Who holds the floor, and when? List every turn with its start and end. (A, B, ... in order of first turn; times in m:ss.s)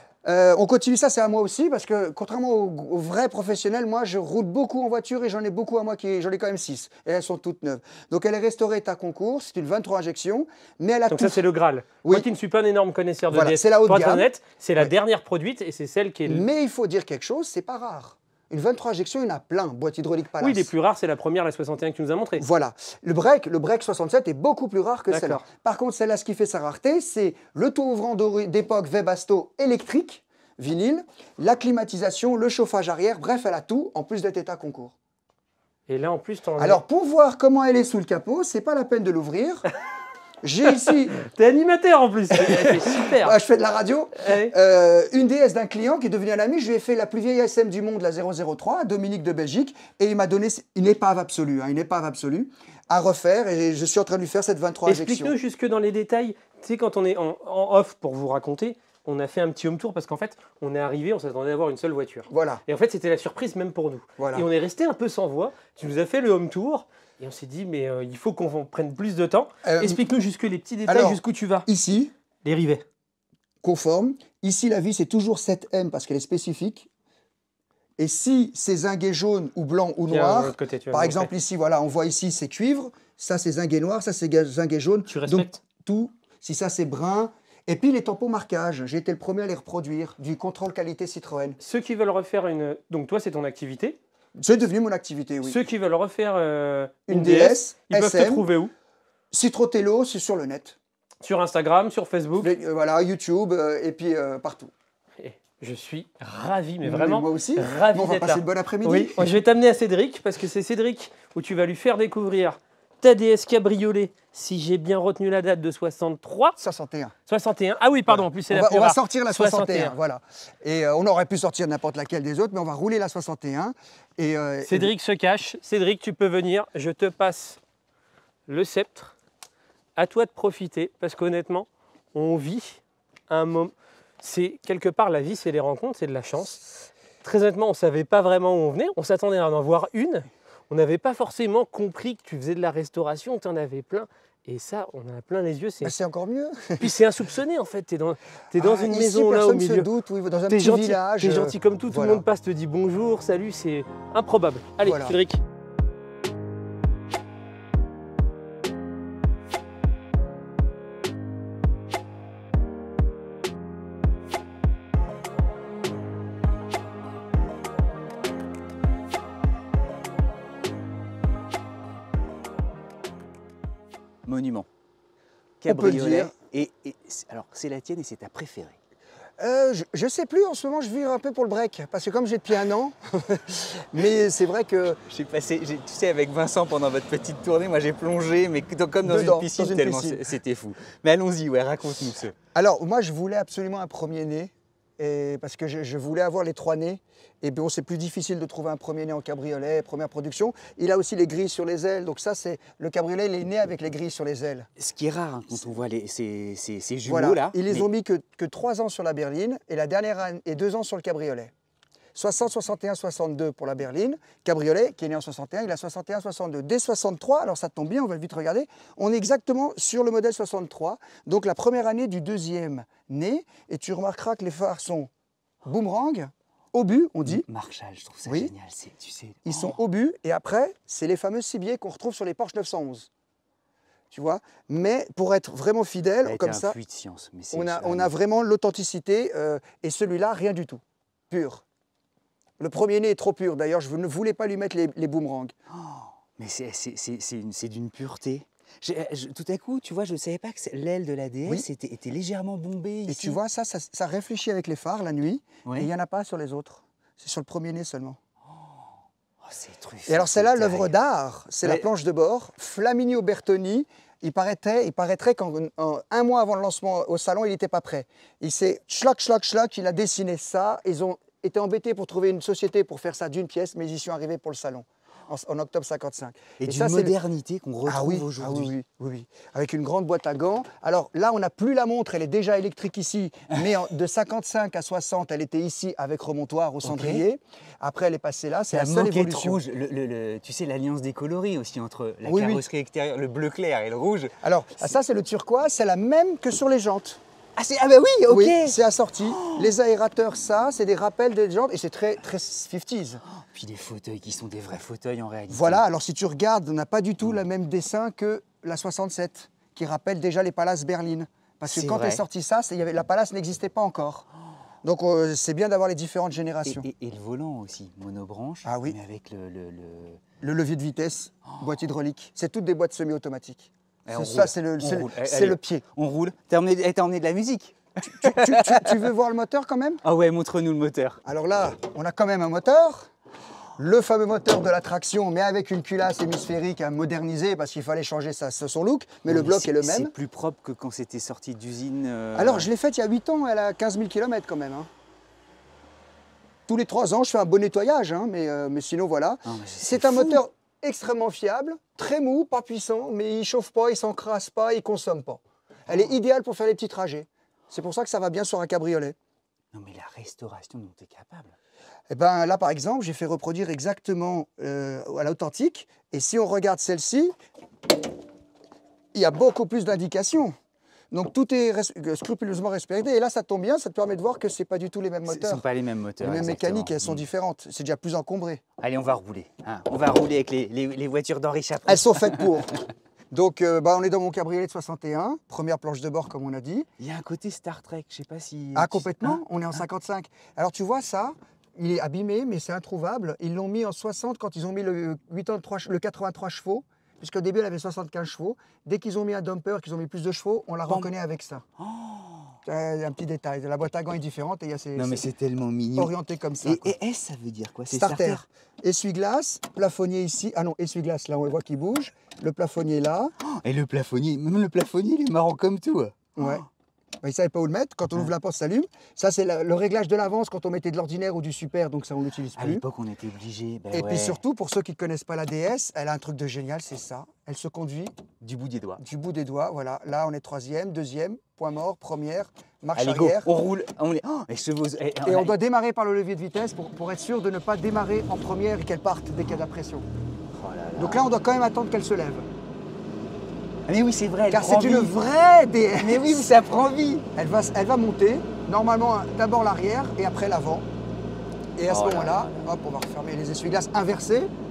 0:00.2-0:11.4 A
0:11.1-0:16.5 B
0:13.3-0:14.9 A
0:16.3-0:20.7 A
0:20.4-0:22.5 B
0:22.4-0:34.9 A
0:25.1-0:25.4 B
0:35.9-0:36.8 B
0:36.6-0:39.7 A
0:40.4-0:41.2 A
0:41.2-0:43.4 B
0:42.3-0:55.4 A
0:44.2-0:44.5 B
0:54.9-1:11.7 B
1:02.3-1:02.6 A
1:04.2-1:04.5 A
1:09.6-1:10.0 A
1:10.9-1:12.1 A
1:12.4-1:12.8 B
1:13.6-1:16.9 A
1:18.0-1:31.6 A
1:20.1-1:21.3 B
1:25.1-1:25.6 B
1:31.6-1:34.0 B
1:34.4-1:35.6 A
1:35.4-1:38.7 B
1:37.1-1:38.5 A
1:39.3-1:40.8 A
1:41.2-1:42.5 B
1:42.4-1:44.7 A
1:45.2-1:56.6 B
1:46.8-1:49.4 A
1:56.6-1:57.1 A
1:57.3-2:00.0 B
1:58.1-2:04.9 A
2:04.7-2:07.6 B
2:08.5-2:09.1 B
2:10.0-2:16.6 B
2:17.2-2:25.9 B
2:25.8-2:26.9 A
2:26.8-2:29.9 B
2:28.6-2:32.2 A
2:30.5-2:35.4 B
2:34.8-2:35.2 A
2:54.2-2:54.7 C
2:55.6-2:58.8 C
2:55.7-2:56.3 A
2:59.4-3:05.0 A
3:05.1-3:12.4 C
3:09.0-3:10.2 A
3:12.5-3:24.7 A
3:24.8-3:27.9 C
3:27.1-3:31.5 A
3:32.2-3:45.1 A
3:45.6-3:47.4 A
3:47.2-3:49.8 C
3:48.3-3:48.5 A
3:49.4-3:53.1 A
3:54.1-3:56.8 A
3:56.2-3:58.1 C
3:57.5-4:01.6 A
4:02.6-4:05.6 A
4:05.7-4:13.4 C
4:13.1-4:18.2 A
4:15.6-4:15.9 C
4:18.5-4:20.9 C
4:20.1-4:37.2 A
4:36.6-4:38.7 C
4:37.9-4:49.6 A
4:46.8-4:47.3 C
4:48.7-4:54.4 C
4:52.2-4:52.6 A
4:54.4-4:57.2 A
4:57.6-4:59.7 C
4:58.3-5:03.2 A
5:03.3-5:05.8 C
5:05.5-5:14.3 A
5:11.7-5:12.2 C
5:14.8-5:16.9 A
5:16.6-5:20.2 C
5:18.6-5:19.0 A
5:20.4-5:25.8 A
5:24.1-5:29.1 C
5:28.0-5:30.0 A
5:30.0-5:31.2 C
5:31.2-5:33.1 A
5:33.8-5:40.1 A
5:39.3-5:42.7 C
5:42.4-5:44.9 A
5:46.7-5:59.2 A
5:49.4-5:50.4 C
5:55.9-5:56.1 C
5:59.7-6:01.6 C
6:02.1-6:07.3 A
6:09.1-6:10.6 A
6:11.1-6:15.6 A
6:15.3-6:17.3 C
6:16.2-6:18.6 A
6:18.8-6:22.6 C
6:21.9-6:22.8 A
6:23.3-6:26.9 A
6:27.0-6:29.4 C
6:28.8-6:41.6 A
6:41.8-6:42.6 C
6:42.6-6:45.2 A
6:45.0-6:48.4 C
6:46.0-6:47.0 A
6:47.9-6:53.3 A
6:53.4-6:56.6 C
6:56.4-6:56.7 A
6:57.2-7:02.8 A
7:02.6-7:04.4 C
7:03.9-7:08.2 A
7:08.4-7:09.0 C
7:09.0-7:13.5 A
7:13.0-7:15.6 C
7:15.2-7:20.1 A
7:20.5-7:21.3 C
7:21.0-7:22.5 A
7:23.9-7:25.1 C
7:24.5-7:26.5 A
7:26.0-7:27.3 C
7:27.4-7:30.9 A
7:31.8-7:34.5 A
7:31.9-7:32.7 C